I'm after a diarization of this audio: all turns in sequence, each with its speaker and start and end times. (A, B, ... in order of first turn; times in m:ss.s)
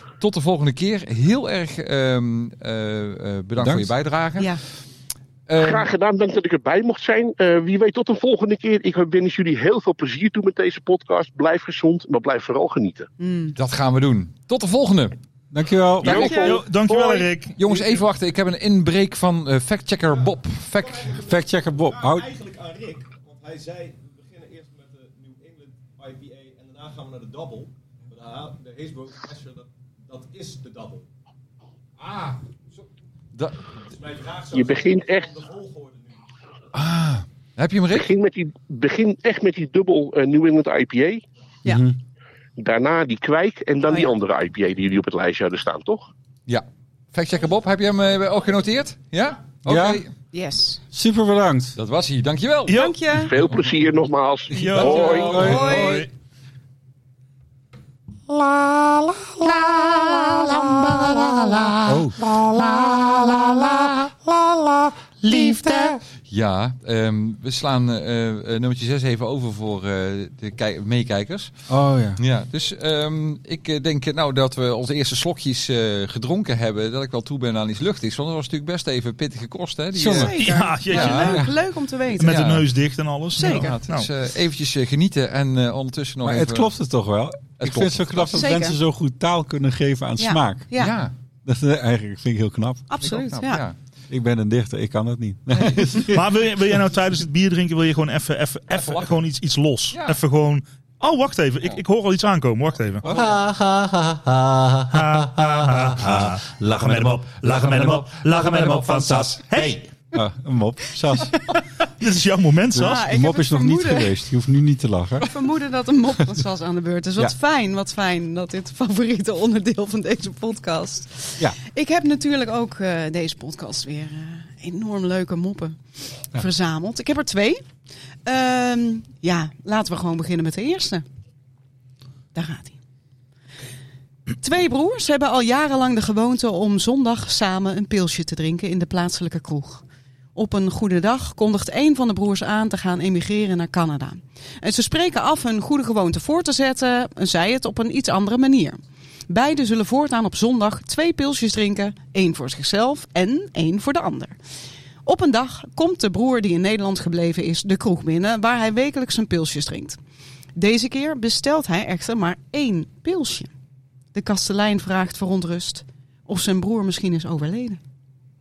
0:00.2-0:04.5 A
0:03.6-0:03.9 B
0:05.5-0:05.8 A
0:05.6-0:13.1 C
0:13.2-0:13.6 D
0:13.6-0:15.2 A
0:15.5-0:16.3 B
0:16.0-0:16.4 A
0:16.0-0:17.8 E
0:16.1-0:16.6 C
0:16.1-0:16.6 D
0:17.6-0:21.2 A
0:20.8-0:31.0 F
0:21.2-0:22.3 B
0:33.9-0:36.2 F
0:34.5-0:35.3 C
0:36.7-0:38.1 A
0:37.9-0:41.2 C
0:41.6-0:42.0 B
0:42.6-0:46.1 C
0:46.5-0:50.1 A
0:49.6-0:50.0 B
0:50.3-0:50.8 D
0:50.9-0:51.8 B
0:51.8-0:52.8 A
0:52.7-0:53.3 E
0:52.7-0:53.3 D
0:53.2-0:55.6 C
0:54.5-0:56.1 E
0:54.7-0:55.9 A
0:55.2-0:55.8 B
0:55.3-0:56.1 D
1:01.8-1:02.3 B
1:06.3-1:11.6 A
1:11.7-1:12.2 B
1:12.2-1:20.4 A
1:19.9-1:20.4 B
1:20.0-1:22.4 D
1:20.4-1:21.4 E
1:20.9-1:21.4 A
1:22.2-1:24.1 E
1:22.3-1:22.6 A
1:23.4-1:23.8 D
1:23.4-1:26.7 A
1:26.2-1:30.6 B
1:27.6-1:28.3 A
1:28.3-1:28.8 D
1:30.2-1:31.0 D
1:30.8-1:31.1 A
1:31.4-1:32.9 B
1:32.9-1:33.6 D
1:33.0-1:33.8 A
1:34.1-1:36.3 B
1:36.1-1:43.0 E
1:38.8-1:39.1 A
1:39.9-1:40.2 A
1:43.1-1:44.1 B
1:44.9-1:49.9 E
1:50.1-1:51.4 B
1:52.0-1:53.0 E
1:52.7-1:55.3 B
1:52.8-1:54.2 D
1:55.2-2:05.8 D
2:06.3-2:07.6 D
2:08.2-2:11.0 D
2:12.3-2:12.8 D
2:14.4-2:19.8 D
2:20.4-2:28.8 D
2:29.3-2:34.4 D
2:35.0-2:40.0 D
2:40.6-2:43.5 D
2:44.1-2:47.8 D